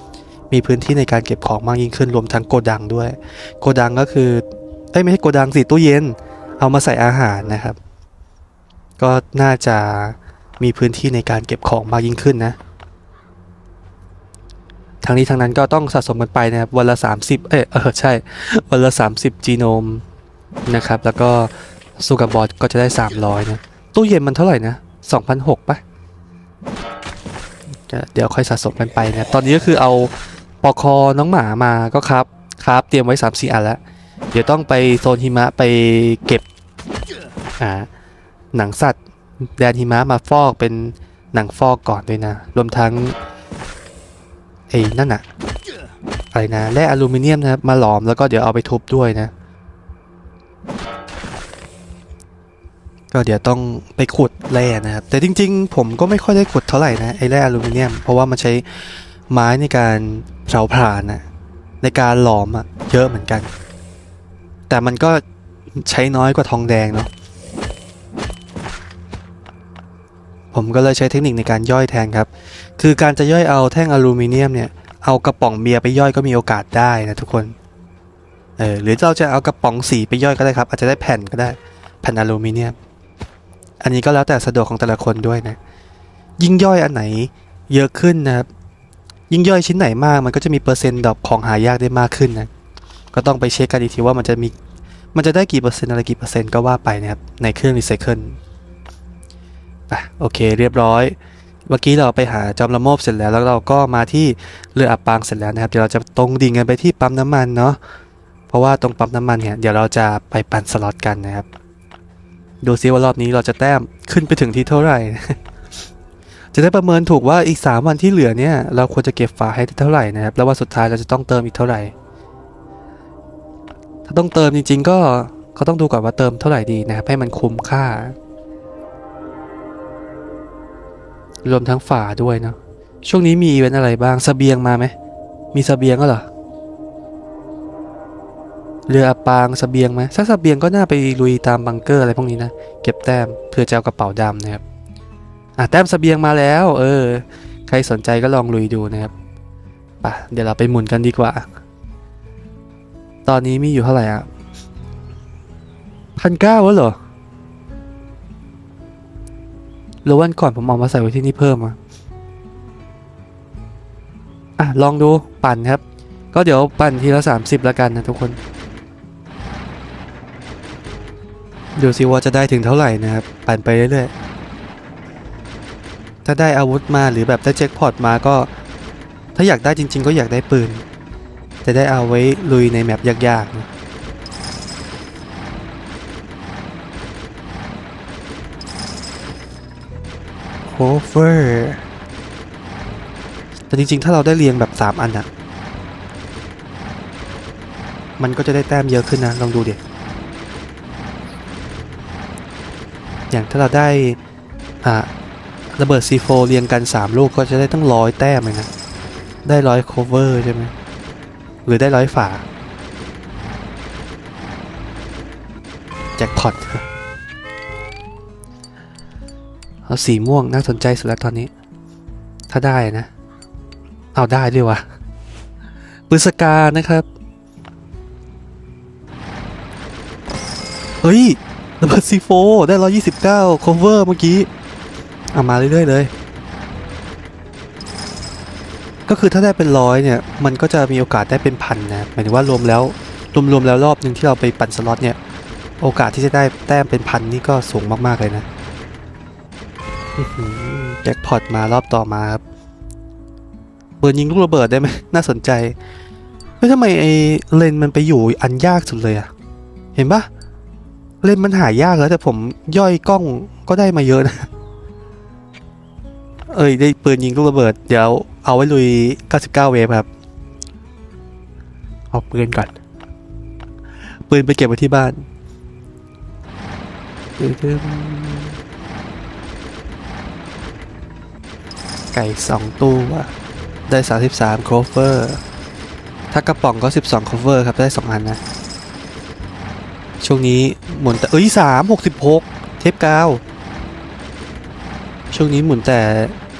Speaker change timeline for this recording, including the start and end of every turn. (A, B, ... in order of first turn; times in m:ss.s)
0:00.5-0:07.8 A
0:09.0-0:12.6 A
0:15.0-0:20.0 A
0:20.7-0:25.8 A
0:27.7-0:33.8 A
0:34.3-0:36.4 A
0:37.6-0:37.9 A
0:38.5-0:39.0 A
0:39.6-0:43.2 A
0:44.7-0:45.2 A
0:46.3-0:49.3 A
0:53.1-1:01.2 A
1:01.8-1:03.5 A
1:04.7-1:05.2 A
1:05.8-1:07.1 A
1:10.5-1:17.5 A
1:18.6-1:22.7 A
1:23.8-1:25.6 A
1:26.4-1:28.5 A
1:29.3-1:32.5 A
1:33.1-1:34.5 A
1:35.1-1:38.4 A
1:39.9-1:47.8 A
1:48.5-1:51.5 A
1:52.6-1:55.4 A
1:56.5-2:01.9 A
2:04.1-2:08.1 A
2:11.4-2:14.9 A
2:15.5-2:16.2 A
2:18.9-2:24.6 A
2:25.6-2:29.1 A
2:30.0-2:31.4 A
2:33.2-2:34.3 A
2:36.2-2:37.0 A
2:40.0-2:41.8 A
2:44.6-2:45.8 A
2:46.3-2:48.4 A
2:51.8-2:54.1 A
2:56.2-2:58.5 A
2:59.4-3:00.8 A
3:01.6-3:03.7 A
3:10.7-3:11.8 A
3:13.7-3:15.3 A
3:18.2-3:19.8 A
3:23.3-3:24.2 A
3:24.8-3:25.1 A
3:25.8-3:28.7 A
3:29.4-3:30.7 A
3:31.6-3:32.4 A
3:36.2-3:36.8 A
3:39.9-3:41.5 A
3:42.5-3:43.1 A
3:44.1-3:44.8 A
3:46.1-3:47.0 A
3:51.0-3:54.5 A
3:55.3-3:56.1 A
3:59.1-4:05.2 A
4:05.8-4:08.4 A
4:10.2-4:12.4 A
4:14.0-4:15.8 A
4:16.6-4:19.3 A
4:19.9-4:20.3 A
4:21.2-4:24.5 A
4:26.5-4:30.1 A
4:32.1-4:32.7 A
4:34.3-4:35.2 A
4:37.4-4:38.6 A
4:42.1-4:43.3 A
4:43.9-4:45.4 A
4:46.3-4:48.4 A
4:50.2-4:53.4 A
4:55.3-4:56.3 A